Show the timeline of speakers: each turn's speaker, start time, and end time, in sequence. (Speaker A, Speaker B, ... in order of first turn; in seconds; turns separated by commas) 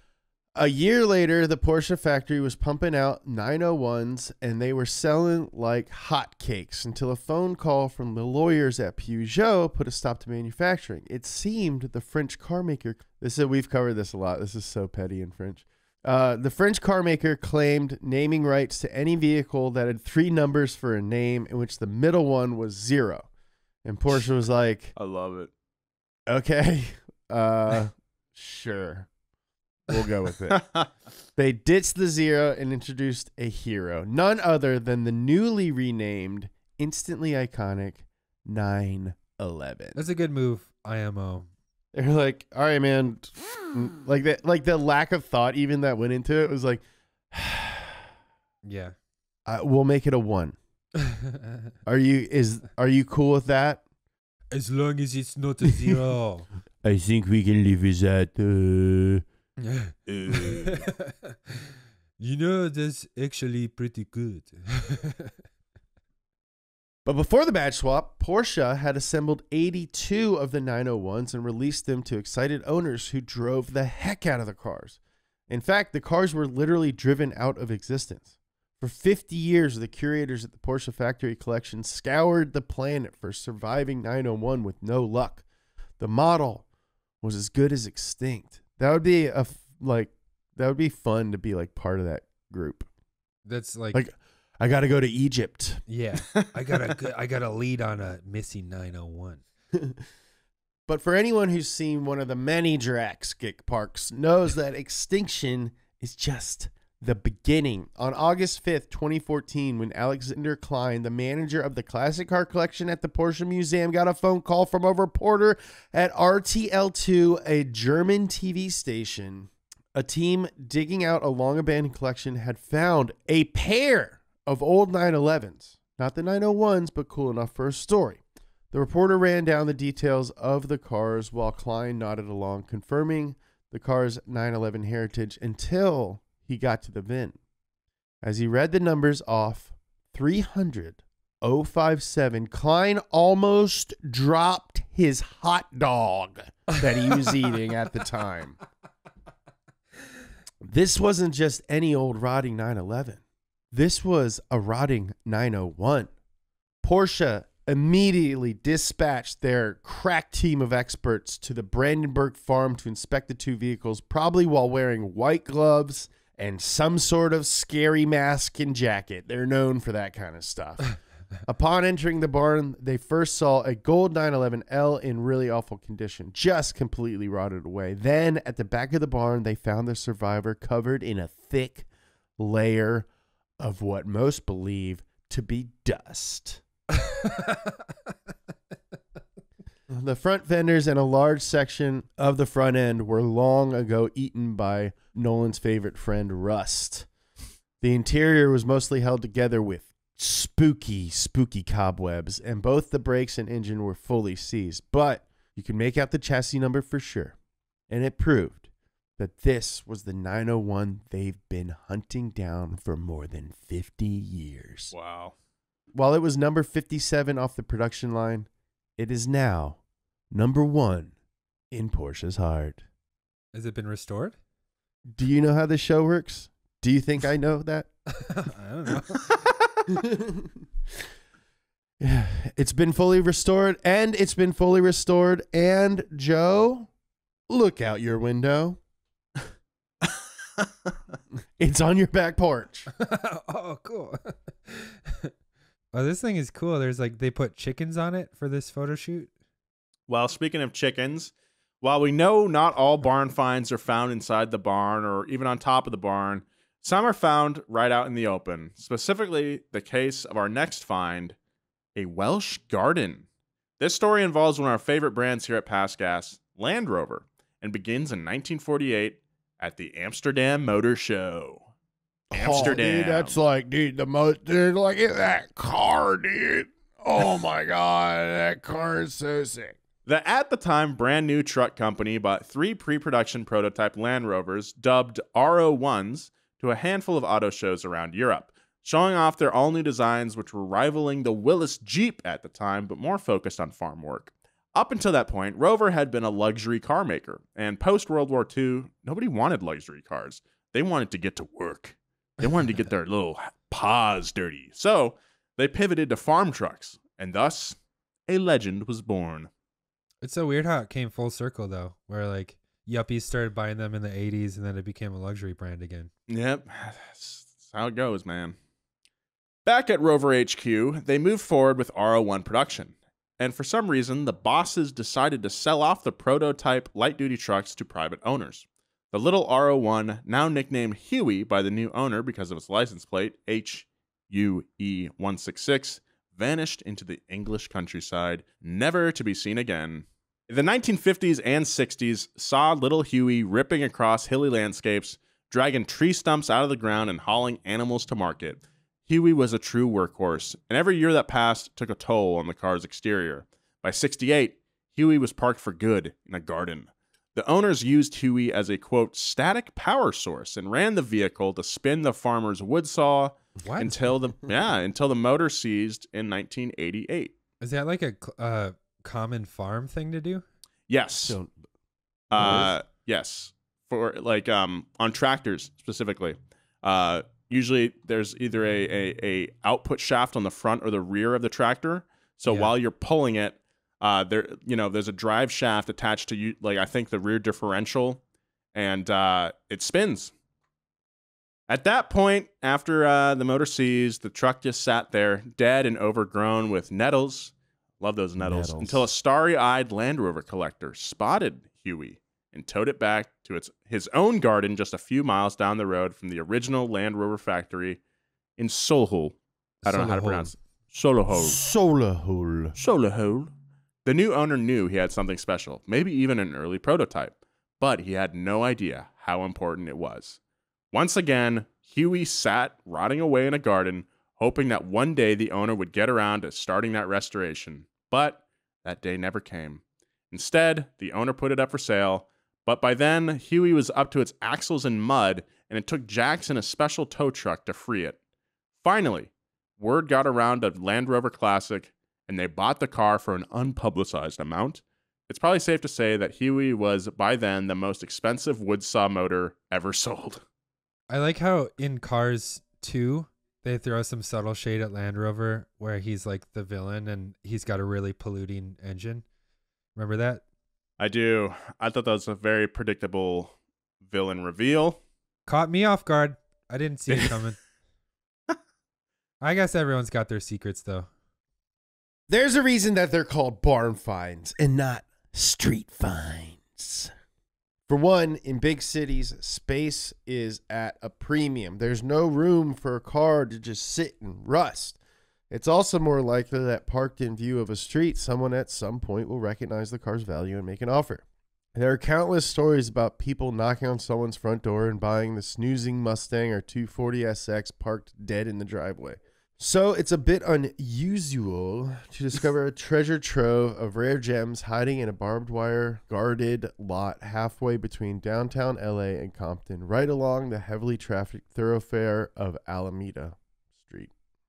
Speaker A: 0.6-23.3, Speaker A: 23.8-24.9, Speaker B: 24.9-25.5, Speaker A: 26.3-29.1, Speaker A: 29.9-30.6, Speaker B: 30.5-30.9, Speaker A: 31.4-40.0, Speaker C: 40.0-41.5, Speaker A: 41.9-48.1, Speaker C: 48.6-48.9, Speaker A: 49.5-50.6, Speaker C: 51.1-51.4, Speaker A: 51.9-53.8, Speaker C: 54.5-56.5, Speaker A: 56.8-59.2, Speaker C: 59.6-61.7, Speaker B: 60.1-60.9, Speaker C: 62.2-65.3, Speaker A: 67.0-75.0, Speaker A: 75.5-85.4, Speaker A: 86.0-86.6, Speaker A: 87.2-92.9, Speaker C: 93.5-94.0, Speaker A: 93.9-95.8, Speaker C: 95.9-99.4, Speaker A: 99.7-100.0, Speaker A: 100.9-137.4, Speaker A: 138.2-148.6, Speaker A: 150.6-153.2, Speaker A: 153.7-156.1, Speaker A: 156.8-181.9, Speaker A: 182.4-183.1, Speaker A: 183.6-186.6, Speaker C: 187.0-187.8, Speaker A: 189.9-197.1, Speaker A: 197.8-207.3, Speaker A: 207.9-214.9, Speaker B: 214.9-215.3, Speaker A: 215.9-219.8, Speaker A: 220.3-221.1, Speaker A: 221.7-222.8, Speaker C: 223.5-224.3, Speaker A: 225.1-227.9, Speaker C: 228.2-229.3, Speaker A: 229.9-230.6, Speaker A: 232.0-236.9, Speaker A: 237.5-238.8, Speaker B: 240.1-240.7, Speaker A: 241.6-242.9, Speaker C: 242.9-245.3, Speaker C: 245.9-249.3, Speaker B: 250.1-261.4, Speaker B: 261.9-263.2, Speaker B: 263.8-271.7, Speaker A: 272.3-279.8, Speaker B: 272.3-273.4, Speaker B: 280.1-309.5, Speaker C: 310.2-316.1, Speaker B: 316.3-318.6, Speaker B: 319.6-367.3, Speaker C: 363.7-363.9, Speaker C: 367.6-370.4, Speaker B: 370.9-371.4, Speaker A: 371.2-371.5, Speaker B: 372.3-388.2, Speaker A: 372.3-372.7, Speaker C: 382.5-382.7, Speaker B: 388.7-390.3, Speaker B: 391.7-408.0, Speaker A: 398.4-399.0, Speaker B: 408.6-411.6, Speaker C: 409.8-410.5, Speaker A: 411.3-412.8, Speaker B: 412.8-413.5, Speaker B: 414.0-420.4, Speaker B: 420.9-438.2, Speaker B: 438.8-450.4, Speaker C: 451.1-459.2, Speaker C: 459.9-460.4, Speaker B: 461.0-465.0, Speaker C: 465.4-467.6, Speaker C: 469.4-471.1, Speaker A: 472.3-477.1, Speaker A: 477.9-485.0, Speaker A: 485.5-491.2, Speaker A: 491.7-514.1